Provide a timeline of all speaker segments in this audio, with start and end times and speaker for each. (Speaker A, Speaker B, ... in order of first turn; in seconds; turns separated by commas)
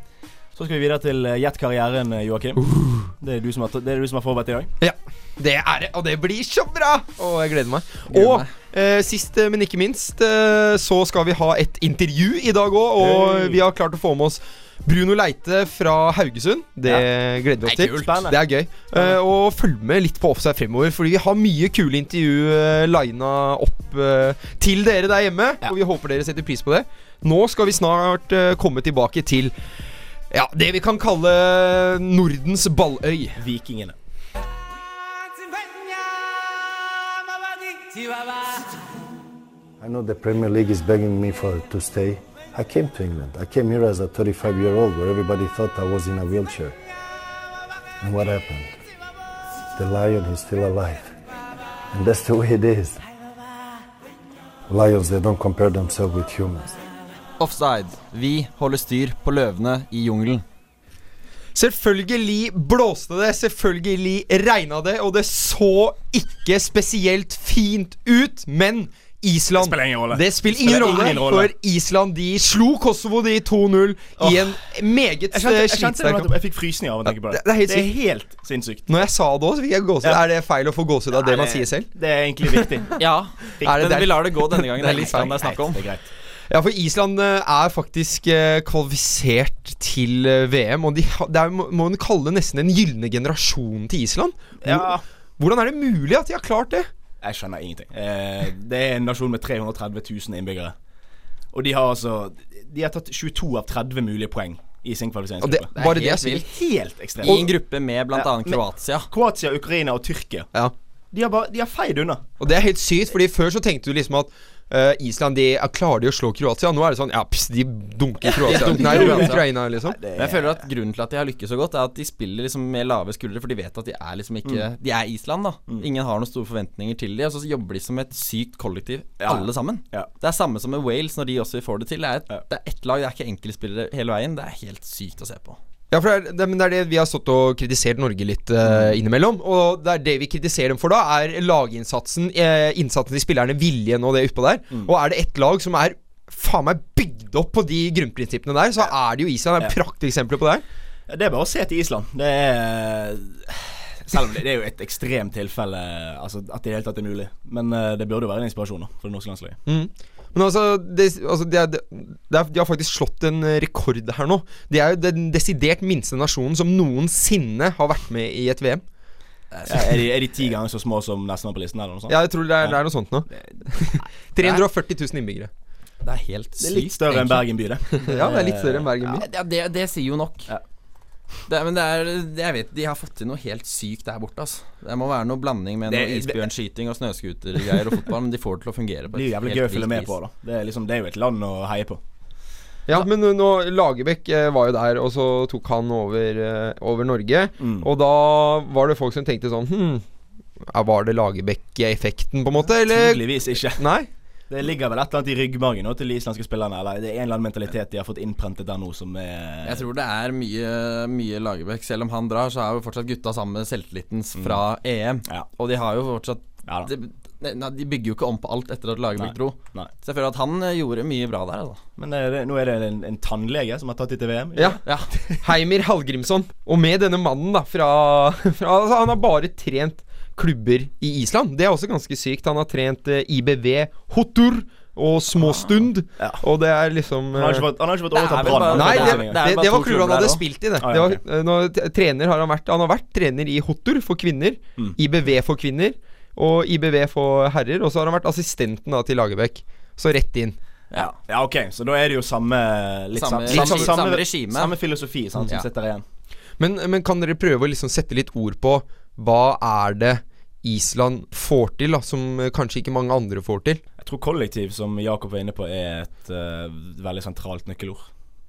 Speaker A: 0.6-2.6, Speaker B: 2.6-3.1, Speaker A: 3.2-4.7, Speaker B: 4.8-29.6, Speaker C: 8.1-8.5, Speaker A: 13.0-13.6, Speaker C: 17.6-18.3, Speaker A: 17.9-18.4, Speaker B: 30.3-33.4, Speaker A: 33.4-34.0, Speaker D: 39.8-46.8, Speaker D: 48.0-48.8, Speaker D: 49.8-51.1, Speaker D: 51.9-53.0, Speaker D: 54.7-56.8, Speaker C: 57.4-60.4, Speaker B: 61.5-76.3, Speaker A: 69.6-71.5, Speaker A: 74.2-74.6, Speaker A: 75.3-79.0, Speaker B: 77.3-78.0, Speaker B: 78.9-81.9, Speaker A: 81.1-83.0, Speaker C: 83.0-85.9, Speaker A: 83.6-83.9, Speaker B: 83.6-85.5, Speaker A: 85.0-86.1, Speaker B: 86.5-96.9, Speaker A: 94.6-95.0, Speaker A: 97.2-100.8, Speaker A: 101.5-107.5, Speaker B: 105.4-106.4, Speaker C: 105.8-106.4, Speaker C: 107.2-109.1, Speaker A: 108.1-110.5, Speaker A: 111.1-112.2, Speaker B: 112.4-120.0, Speaker C: 118.4-119.5, Speaker A: 118.4-120.6, Speaker C: 120.2-135.6, Speaker A: 129.2-130.1, Speaker B: 135.9-150.6, Speaker A: 151.1-159.6, Speaker B: 159.7-168.8, Speaker C: 169.5-170.0, Speaker A: 169.7-172.8, Speaker B: 172.1-175.5, Speaker A: 173.3-174.0, Speaker C: 176.0-177.4, Speaker A: 176.6-178.9, Speaker B: 177.9-179.2, Speaker C: 179.0-180.5, Speaker C: 181.5-190.1, Speaker A: 185.9-186.4, Speaker A: 189.1-192.0, Speaker B: 192.9-200.0, Speaker A: 197.6-197.9, Speaker B: 200.6-204.1, Speaker A: 202.7-203.9, Speaker A: 204.5-209.9, Speaker C: 209.7-221.8, Speaker A: 214.4-214.6, Speaker A: 219.2-219.9, Speaker A: 222.0-225.4, Speaker B: 224.6-224.8, Speaker C: 224.8-225.1, Speaker B: 225.4-237.7, Speaker C: 235.4-235.7, Speaker A: 236.2-236.4, Speaker A: 237.3-239.4, Speaker C: 238.1-240.4, Speaker B: 238.7-250.6, Speaker A: 240.8-241.2, Speaker A: 251.0-256.0, Speaker C: 253.1-254.8, Speaker B: 253.5-253.9, Speaker B: 256.6-263.8, Speaker A: 264.0-268.1